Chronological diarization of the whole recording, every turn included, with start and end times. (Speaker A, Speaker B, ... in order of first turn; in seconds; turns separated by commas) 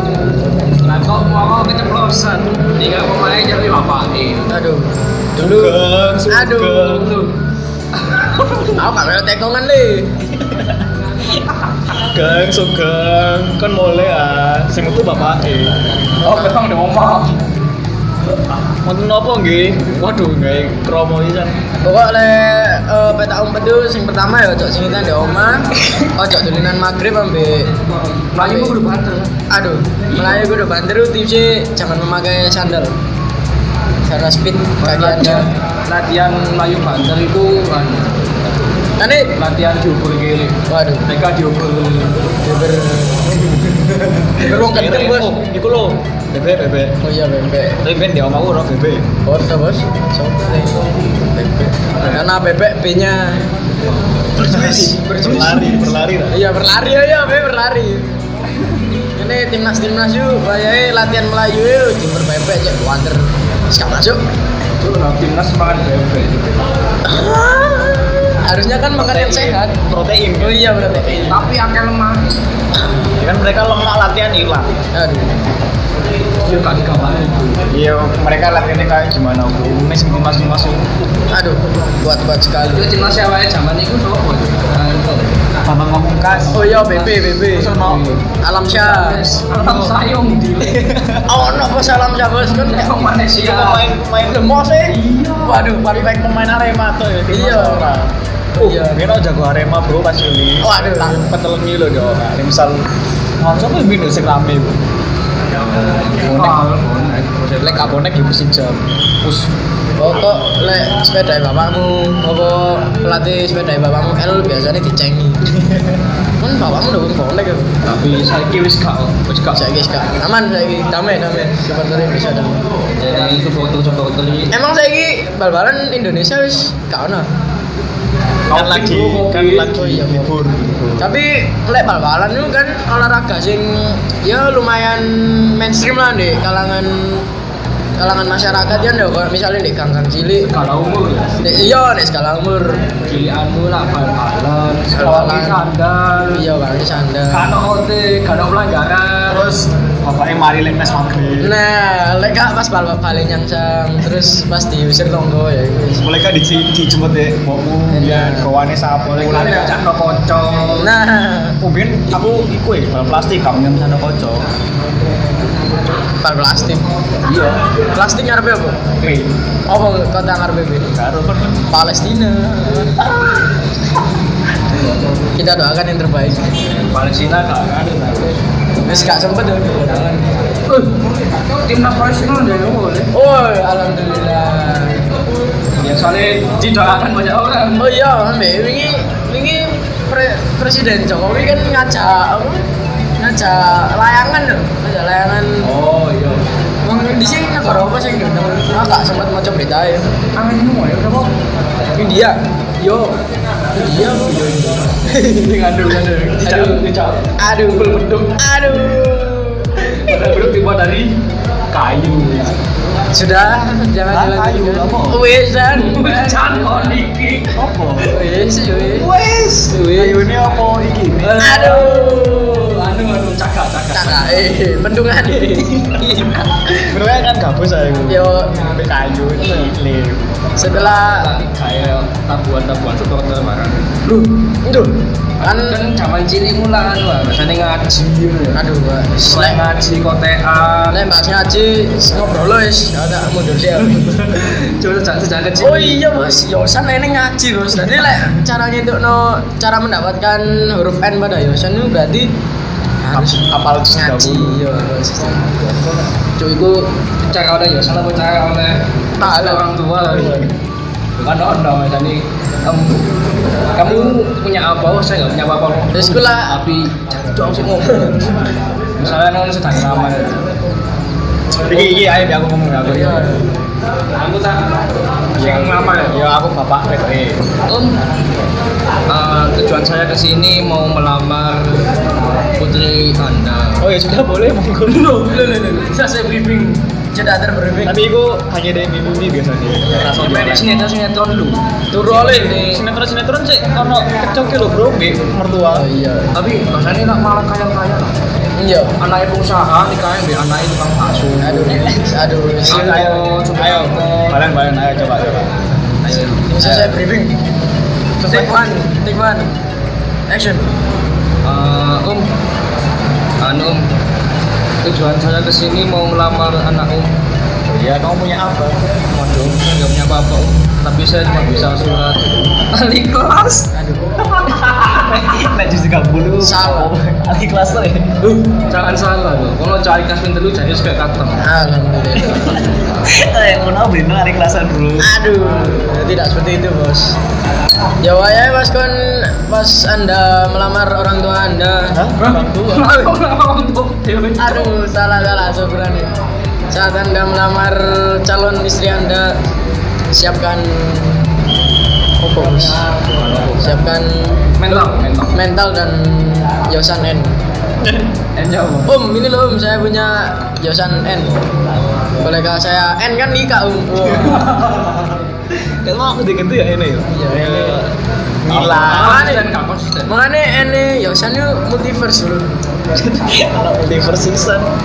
Speaker A: 0.8-4.5, Speaker B: 4.5-7.1, Speaker C: 5.4-7.1, Speaker A: 6.8-7.3, Speaker A: 8.0-8.8, Speaker B: 8.8-10.1, Speaker C: 10.4-10.8, Speaker C: 11.9-15.8, Speaker B: 16.2-16.6, Speaker A: 16.2-17.4, Speaker C: 18.9-21.6, Speaker B: 21.8-27.7, Speaker A: 28.2-29.4, Speaker B: 28.4-28.8, Speaker B: 29.5-32.9, Speaker A: 30.1-30.5, Speaker B: 34.1-35.5, Speaker A: 34.8-38.3, Speaker B: 39.0-39.3, Speaker A: 39.4-42.2, Speaker B: 40.7-41.0, Speaker B: 42.4-45.4, Speaker C: 44.4-47.0, Speaker B: 47.0-47.8, Speaker C: 47.8-49.1, Speaker B: 49.2-53.5, Speaker B: 54.4-58.2, Speaker C: 54.4-56.4, Speaker B: 59.2-64.2, Speaker A: 64.8-66.7, Speaker B: 67.0-69.8, Speaker C: 69.0-71.0, Speaker B: 70.4-71.4, Speaker A: 71.3-72.3, Speaker C: 73.2-74.7, Speaker B: 75.0-75.4, Speaker A: 76.4-77.6, Speaker C: 77.7-80.9, Speaker B: 81.3-82.9, Speaker A: 82.7-85.4, Speaker C: 85.7-86.8, Speaker A: 86.3-88.2, Speaker B: 86.5-87.8, Speaker C: 87.5-88.1, Speaker B: 88.4-89.3, Speaker A: 88.8-90.9, Speaker C: 89.5-90.0, Speaker C: 90.6-91.3, Speaker B: 91.3-93.1, Speaker A: 92.6-93.9, Speaker C: 93.4-102.9, Speaker B: 94.3-96.2, Speaker B: 97.3-97.9, Speaker B: 98.6-99.0, Speaker B: 100.6-101.3, Speaker C: 103.4-104.8, Speaker A: 105.6-108.0, Speaker C: 106.2-106.6, Speaker C: 107.6-109.5, Speaker B: 110.0-115.4, Speaker C: 115.5-115.9, Speaker B: 116.4-117.7, Speaker A: 117.8-119.6, Speaker B: 119.5-122.5, Speaker A: 123.0-124.5, Speaker B: 124.5-127.3, Speaker A: 128.5-129.7, Speaker C: 128.5-131.1, Speaker B: 129.7-130.3, Speaker B: 131.0-137.3, Speaker B: 138.0-140.5, Speaker A: 140.4-141.6, Speaker B: 141.4-142.9, Speaker A: 143.0-146.4, Speaker B: 144.9-145.6, Speaker B: 146.3-147.5, Speaker A: 147.3-149.5, Speaker C: 149.3-151.5, Speaker B: 151.4-156.1, Speaker C: 156.0-159.8, Speaker B: 157.9-158.5, Speaker A: 159.1-160.9, Speaker B: 159.3-159.8, Speaker B: 160.8-161.6, Speaker C: 161.6-164.5, Speaker B: 166.2-166.8, Speaker A: 167.2-167.6, Speaker B: 167.9-168.8, Speaker C: 169.0-169.3, Speaker B: 169.7-170.9, Speaker C: 170.9-171.6, Speaker B: 171.7-173.1, Speaker B: 175.4-176.5, Speaker A: 176.7-178.4, Speaker B: 178.8-180.3, Speaker A: 180.7-181.0, Speaker A: 181.6-183.1, Speaker B: 183.1-185.0, Speaker A: 185.8-187.8, Speaker B: 187.8-192.6, Speaker B: 193.2-195.7, Speaker A: 195.6-196.4, Speaker B: 196.8-200.1, Speaker A: 200.3-201.3, Speaker B: 202.0-203.1, Speaker B: 203.8-204.4, Speaker A: 203.8-208.2, Speaker B: 205.1-205.6, Speaker B: 206.4-206.9, Speaker B: 207.4-210.3, Speaker A: 209.9-211.2, Speaker A: 211.7-212.6, Speaker B: 213.1-216.6, Speaker C: 214.1-215.2, Speaker A: 215.7-217.6, Speaker C: 217.5-218.2, Speaker B: 218.1-219.1, Speaker C: 218.9-221.8, Speaker B: 219.7-220.2, Speaker B: 221.2-222.8, Speaker A: 221.4-224.5, Speaker B: 223.9-226.9, Speaker C: 226.9-230.6, Speaker B: 228.1-228.7, Speaker B: 229.4-229.7, Speaker B: 230.6-231.3, Speaker A: 230.6-234.3, Speaker B: 234.6-235.8, Speaker A: 235.4-238.6, Speaker B: 238.6-239.6, Speaker A: 239.3-241.0, Speaker B: 240.9-244.2, Speaker A: 243.8-246.0, Speaker B: 245.6-252.3, Speaker B: 253.0-255.5, Speaker C: 253.1-254.6, Speaker A: 256.4-260.5, Speaker B: 259.2-259.6, Speaker C: 260.1-260.5, Speaker A: 261.2-263.1, Speaker A: 263.8-270.4, Speaker B: 265.9-266.6, Speaker C: 271.6-273.4, Speaker B: 272.9-273.4, Speaker A: 274.1-274.8, Speaker A: 275.4-276.2, Speaker C: 275.4-277.4, Speaker A: 277.7-278.0, Speaker A: 279.1-281.9, Speaker A: 282.6-283.9, Speaker C: 283.8-285.2, Speaker A: 284.9-285.4, Speaker B: 285.3-288.0, Speaker C: 287.9-290.7, Speaker A: 290.1-291.6, Speaker B: 291.9-292.8, Speaker C: 292.0-295.9, Speaker B: 295.7-296.3, Speaker A: 296.3-298.1, Speaker B: 298.6-298.9, Speaker A: 299.0-301.8, Speaker B: 301.4-303.0, Speaker C: 301.7-305.6, Speaker A: 302.7-304.4, Speaker A: 306.0-307.0, Speaker B: 306.5-307.4, Speaker C: 308.2-308.7, Speaker B: 308.3-309.5, Speaker B: 310.3-310.7, Speaker A: 311.4-312.3, Speaker A: 313.4-313.9, Speaker A: 314.8-317.1, Speaker C: 317.7-318.8, Speaker A: 319.1-323.7, Speaker B: 323.7-324.1, Speaker C: 324.3-328.1, Speaker B: 326.4-326.9, Speaker A: 328.7-331.4, Speaker B: 331.4-332.6, Speaker C: 332.2-335.1, Speaker B: 335.0-337.2, Speaker B: 338.0-342.0, Speaker C: 341.9-342.9, Speaker A: 342.2-344.7, Speaker B: 344.4-346.1, Speaker B: 346.7-349.4, Speaker B: 350.1-351.3, Speaker B: 352.2-352.8, Speaker A: 353.1-353.7, Speaker B: 353.6-354.4, Speaker A: 354.6-355.4, Speaker B: 355.3-357.4, Speaker C: 357.8-358.1, Speaker A: 358.4-358.9, Speaker B: 358.9-361.3, Speaker B: 362.2-364.6, Speaker C: 365.8-367.9, Speaker B: 367.1-367.8, Speaker C: 368.4-369.2, Speaker A: 368.5-370.1, Speaker B: 368.9-369.5, Speaker B: 370.1-372.6, Speaker C: 372.9-374.7